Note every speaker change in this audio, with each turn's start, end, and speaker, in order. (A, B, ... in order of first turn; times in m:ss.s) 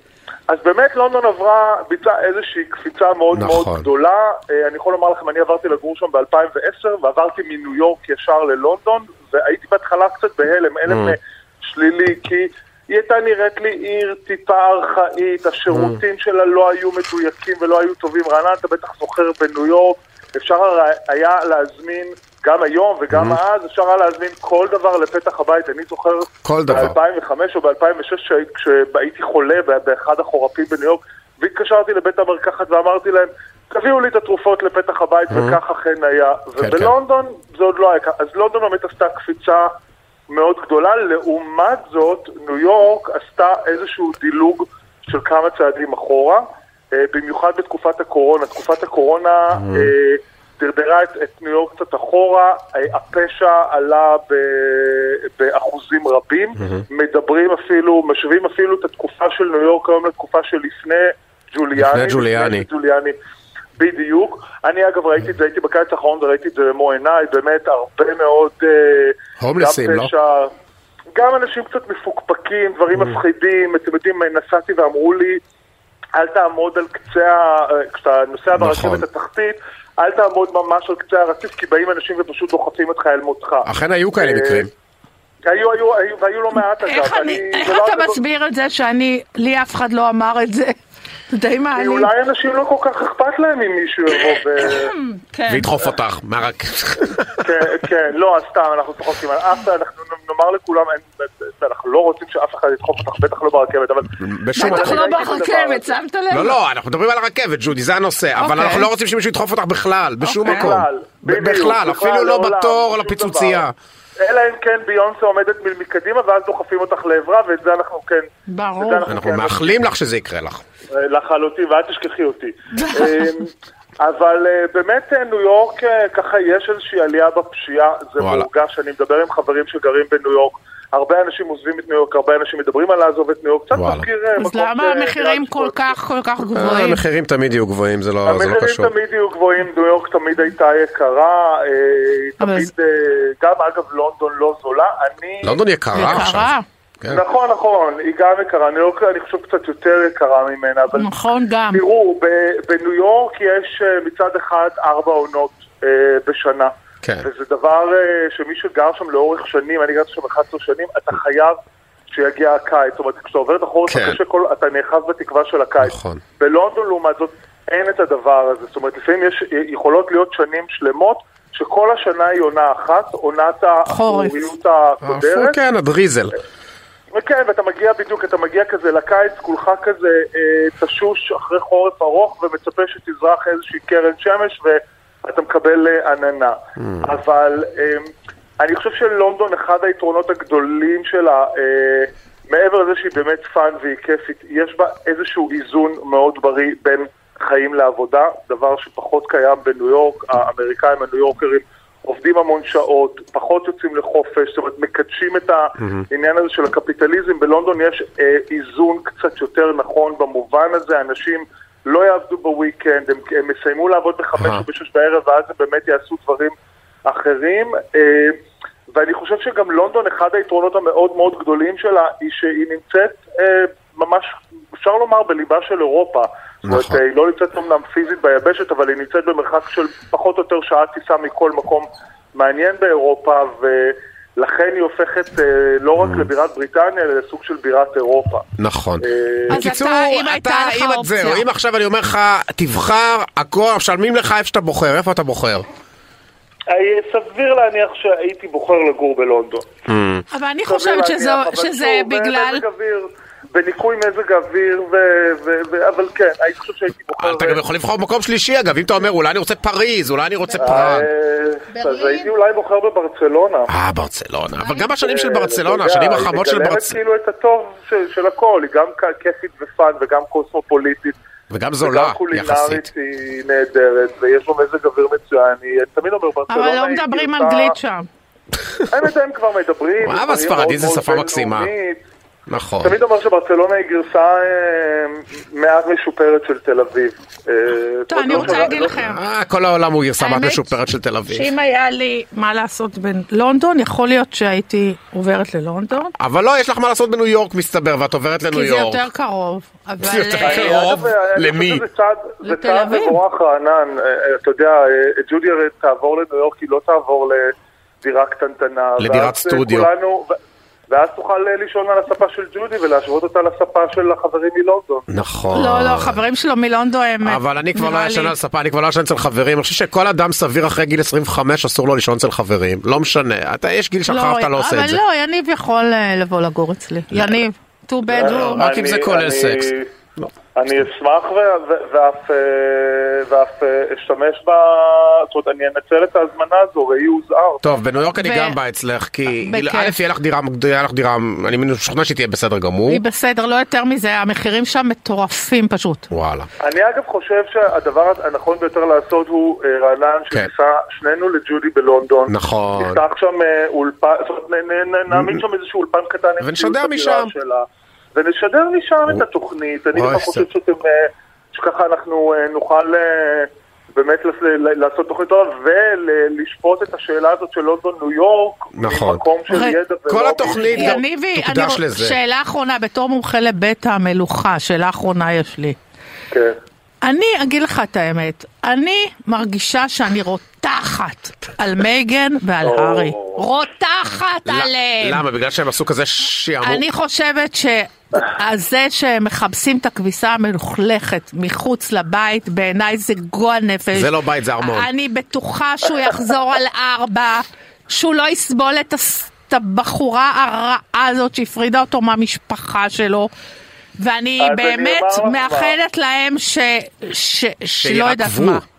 0:00.5-0:39.7 A
0:03.3-0:03.8 B
0:10.9-0:11.2 B
0:15.7-0:16.0 B
0:23.1-0:23.4 B
0:26.4-0:26.9 B
0:35.3-0:35.6 B
0:36.6-0:36.9 B
0:40.3-1:03.1 A
0:49.6-0:49.9 B
1:01.8-1:02.7 B
1:03.8-1:10.5 A
1:09.4-1:10.1 B
1:11.1-1:15.4 A
1:16.1-1:24.7 A
1:18.6-1:19.0 B
1:23.6-1:24.7 B
1:25.4-1:28.2 A
1:26.6-1:30.8 C
1:31.3-1:32.1 C
1:31.7-1:34.9 A
1:34.6-1:35.7 C
1:35.5-1:37.5 B
1:37.4-1:46.0 A
1:44.2-1:45.0 B
1:44.5-1:46.6 C
1:46.3-1:53.7 B
1:48.4-1:48.9 C
1:50.2-1:50.7 C
1:50.4-1:53.6 A
1:54.2-1:59.8 A
1:58.5-1:59.1 C
1:59.1-2:00.6 B
2:00.9-2:16.0 A
2:02.7-2:03.5 C
2:08.2-2:08.5 B
2:13.7-2:14.1 B
2:14.4-2:17.0 C
2:16.5-2:18.9 B
2:18.2-2:25.6 A
2:22.4-2:22.7 C
2:25.4-2:27.2 B
2:25.9-2:26.6 C
2:27.0-2:31.1 A
2:30.9-2:31.8 C
2:31.7-2:41.6 A
2:37.0-2:37.3 B
2:42.1-2:55.6 A
2:43.9-2:44.2 B
2:45.8-2:46.2 B
2:53.9-2:54.4 C
2:55.0-2:56.3 B
2:57.1-3:38.4 A
3:06.8-3:07.0 B
3:34.4-3:34.6 B
3:38.9-3:58.4 A
3:46.6-3:47.0 B
3:56.0-3:56.3 B
3:58.6-4:05.6 B
3:59.0-3:59.6 A
3:59.5-4:01.4 C
4:06.7-4:09.7 A
4:09.9-4:10.2 B
4:10.3-4:12.6 C
4:10.6-4:17.6 A
4:17.2-4:21.1 B
4:20.6-4:23.7 A
4:21.7-4:22.3 C
4:23.7-4:27.0 B
4:25.0-4:31.2 A
4:31.5-4:32.9 B
4:31.8-4:37.8 A
4:36.5-4:38.0 C
4:38.9-4:42.0 A
4:40.0-4:41.7 B
4:42.5-4:43.0 B
4:42.8-4:48.9 A
4:48.1-4:49.2 C
4:48.3-4:51.5 B
4:50.2-4:50.7 C
4:51.3-4:56.1 C
4:56.2-4:59.0 B
4:58.5-5:00.9 C
5:00.0-5:01.8 B
5:00.4-5:10.4 A
5:02.4-5:03.2 C
5:09.0-5:09.9 B
5:10.9-5:15.1 A
5:15.1-5:16.2 B
5:15.5-5:18.3 C
5:17.2-5:25.0 B
5:24.1-5:28.6 C
5:28.1-5:29.9 A
5:28.2-5:30.2 B
5:30.5-5:37.7 A
5:37.6-5:43.0 B
5:38.2-5:38.6 C
5:39.3-5:40.0 C
5:42.9-5:46.1 C
5:46.1-5:46.5 B
5:46.6-6:11.0 A
5:52.3-5:53.0 B
5:56.4-5:57.3 B
5:59.9-6:00.4 B
6:08.7-6:09.2 B
6:09.5-6:09.7 C
6:10.1-6:12.2 B
6:10.6-6:15.8 C
6:17.0-6:25.2 C
6:22.6-6:23.4 A
6:24.4-6:26.8 B
6:26.6-6:43.3 C
6:33.9-6:34.9 B
6:44.0-6:48.6 C
6:44.4-6:45.8 A
6:47.8-6:48.6 B